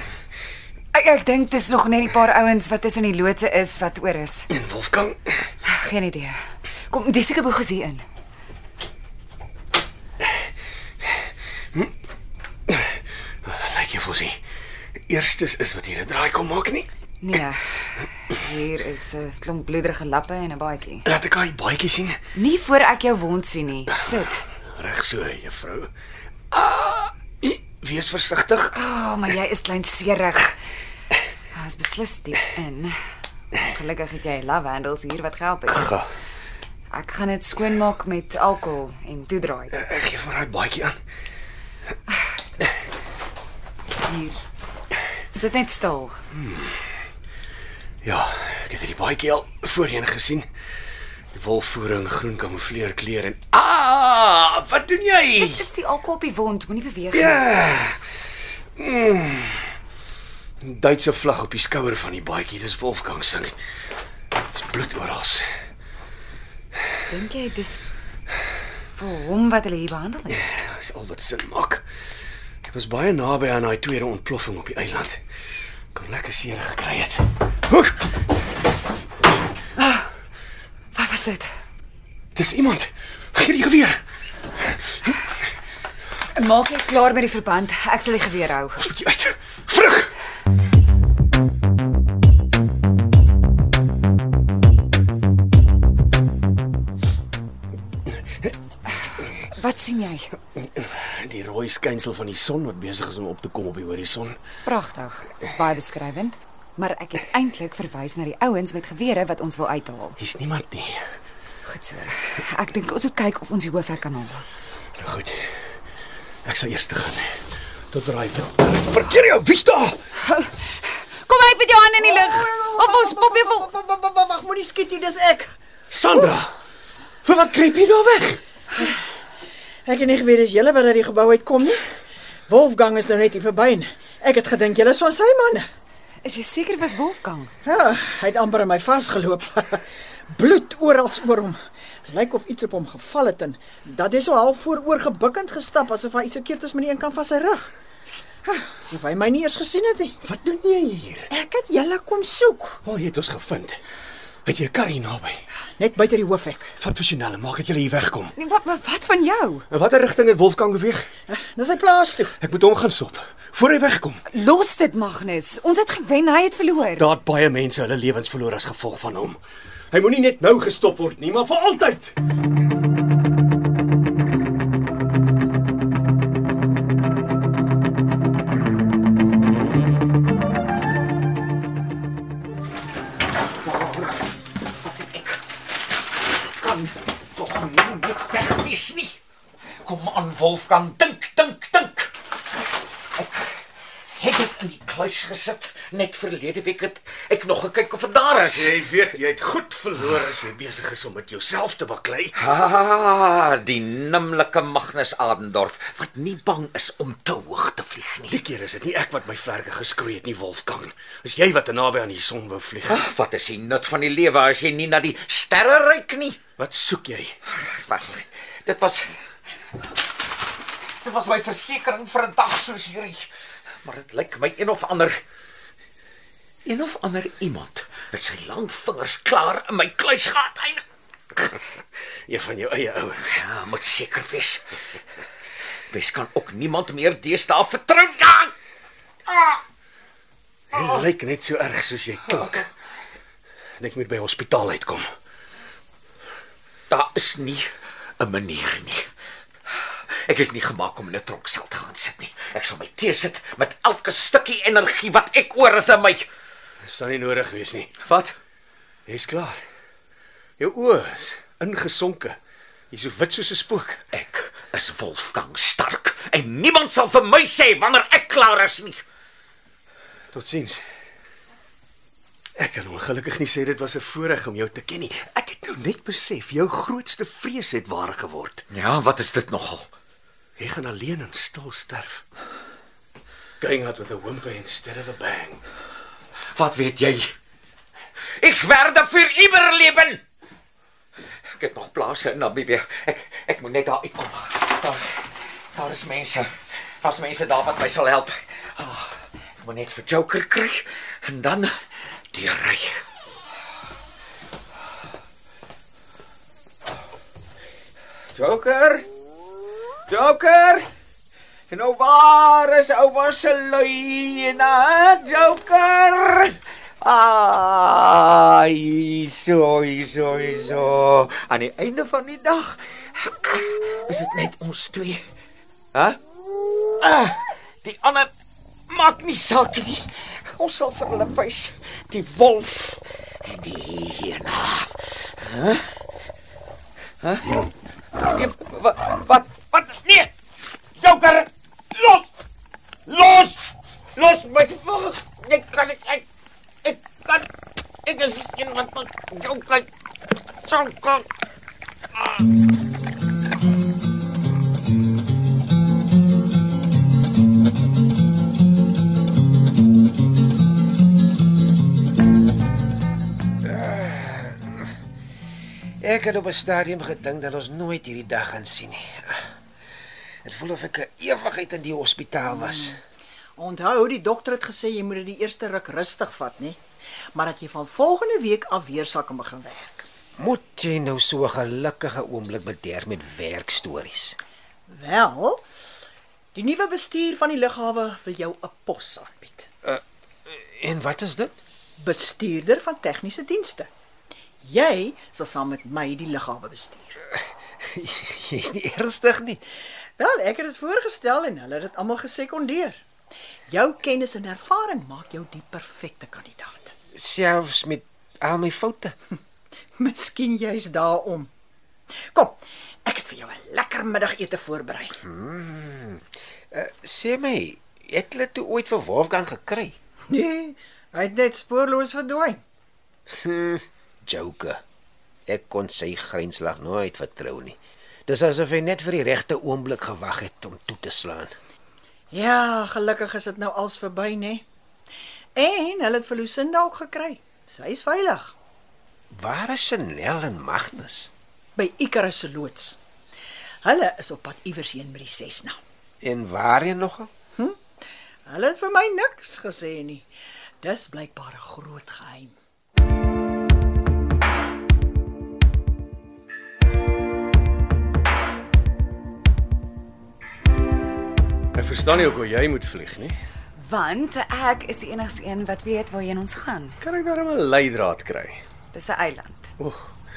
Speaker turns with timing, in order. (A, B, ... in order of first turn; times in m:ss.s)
0:00.9-0:04.5 A
0:04.5-0:05.5 B
0:05.6-0:08.0 A
0:12.7-0:14.4 B
0:15.1-0:16.9 B
0:17.2-0:21.1 A
0:21.0-0:22.2 B
0:22.3-0:24.5 A
0:24.6-0:25.9 B
0:26.5-0:28.7 B
0:28.7-0:30.6 A
0:31.5-0:33.0 A
0:33.6-0:35.9 A
0:35.7-0:36.0 B
0:36.9-0:39.7 A
0:39.7-0:41.0 B
0:44.0-0:44.4 A
0:45.3-0:46.2 A
0:46.3-0:46.8 B
0:48.0-0:50.5 B
0:51.3-0:55.6 B
0:55.4-0:57.5 A
0:57.1-0:58.0 B
0:58.8-0:59.8 B
1:00.6-1:03.6 B
1:04.5-1:05.5 B
1:07.1-1:07.9 A
1:08.9-1:10.5 A
1:10.5-1:11.8 B
1:12.6-1:15.2 B
1:15.9-1:18.1 B
1:19.8-1:20.1 A
1:20.9-1:21.5 A
1:22.3-1:24.0 B
1:24.6-1:25.1 B
1:26.3-1:28.9 A
1:28.8-1:30.1 B
1:38.1-1:38.5 B
1:39.0-1:40.4 A
1:40.5-1:44.4 B
1:44.6-1:50.2 A
1:50.2-1:51.0 B
1:51.6-1:54.4 A
1:55.0-1:55.7 B
1:56.4-2:00.0 B
2:00.2-2:03.7 A
2:02.0-2:05.5 C
2:05.9-2:06.5 B
2:07.2-2:08.4 B
2:09.8-2:11.8 C
2:12.5-2:15.6 C
2:16.2-2:17.5 A
2:17.6-2:21.6 C
2:22.1-2:27.7 C
2:28.4-2:30.2 C
2:30.2-2:31.3 B
2:31.3-2:32.8 C
2:32.8-2:33.8 B
2:34.4-2:35.4 B
2:35.8-2:36.7 C
2:36.8-2:38.3 B
2:38.4-2:39.7 A
2:39.7-2:41.1 B
2:41.3-2:42.3 C
2:42.4-2:44.2 B
2:44.3-2:47.1 A
2:47.0-2:49.4 B
2:49.9-2:52.1 B
3:03.5-3:05.4 D
3:06.4-3:09.2 D
3:09.8-3:12.1 D
3:13.1-3:13.6 D
3:14.1-3:18.8 D
3:18.5-3:22.3 B
3:22.4-3:28.4 D
3:28.3-3:33.0 B
3:32.8-3:36.4 D
3:36.6-3:37.3 B
3:37.5-3:39.2 D
3:41.0-3:43.3 D
3:43.8-3:45.2 D
3:46.6-3:50.8 D
3:52.3-3:53.4 B
3:53.3-3:54.7 D
3:55.9-3:58.5 D
3:59.3-3:59.6 D
4:00.7-4:02.6 B
4:02.4-4:02.6 D
4:03.8-4:05.1 B
4:06.9-4:09.1 D
4:09.7-4:16.3 D
4:16.8-4:17.9 B
4:18.0-4:18.3 D
4:19.1-4:19.6 B
4:20.6-4:22.4 B
4:22.9-4:24.0 B
4:24.1-4:29.0 D
4:30.3-4:30.8 B
4:32.6-4:38.6 B
4:38.7-4:39.9 D
4:40.6-4:42.2 B
4:43.6-4:45.6 B
4:46.5-4:47.3 D
4:48.4-4:50.2 D
4:51.5-5:03.0 D
5:08.3-5:09.0 D
5:10.1-5:10.9 D
5:11.7-5:25.2 D
5:25.9-5:26.2 D
5:27.0-5:28.3 D
5:28.9-5:35.9 D
5:37.2-5:37.7 D
5:38.3-5:40.3 D
5:41.0-5:42.2 D
5:43.1-5:43.6 D
5:44.2-5:46.2 D
5:46.8-5:47.5 D
5:48.0-5:49.9 D
5:50.6-5:51.2 D
6:03.6-6:04.9 E
6:06.0-6:09.5 E
6:10.4-6:13.0 E
6:12.5-6:13.0 C
6:13.6-6:16.8 C
6:17.3-6:20.1 C
6:20.4-6:24.4 E
6:24.9-6:25.6 C
6:26.5-6:29.7 C
6:29.8-6:31.6 E
6:32.0-6:33.9 C
6:34.6-6:37.2 C
6:37.8-6:39.6 E
6:40.2-6:43.0 C
6:43.7-6:46.9 C
6:47.1-6:49.1 E
6:50.0-6:51.5 C
6:52.3-6:55.2 C
6:55.2-7:00.0 E
7:00.3-7:02.6 C
7:03.3-7:04.8 E
7:05.5-7:11.6 E
7:12.3-7:14.6 C
7:15.5-7:18.5 C
7:19.3-7:21.3 E
7:21.8-7:23.0 C
7:23.8-7:25.8 C
7:26.2-7:27.3 E
7:28.5-7:30.3 C
7:30.8-7:32.5 C
7:41.7-7:43.4 B
7:43.8-7:47.0 A
7:47.0-7:48.6 B
7:48.9-7:49.7 A
7:49.8-7:50.1 B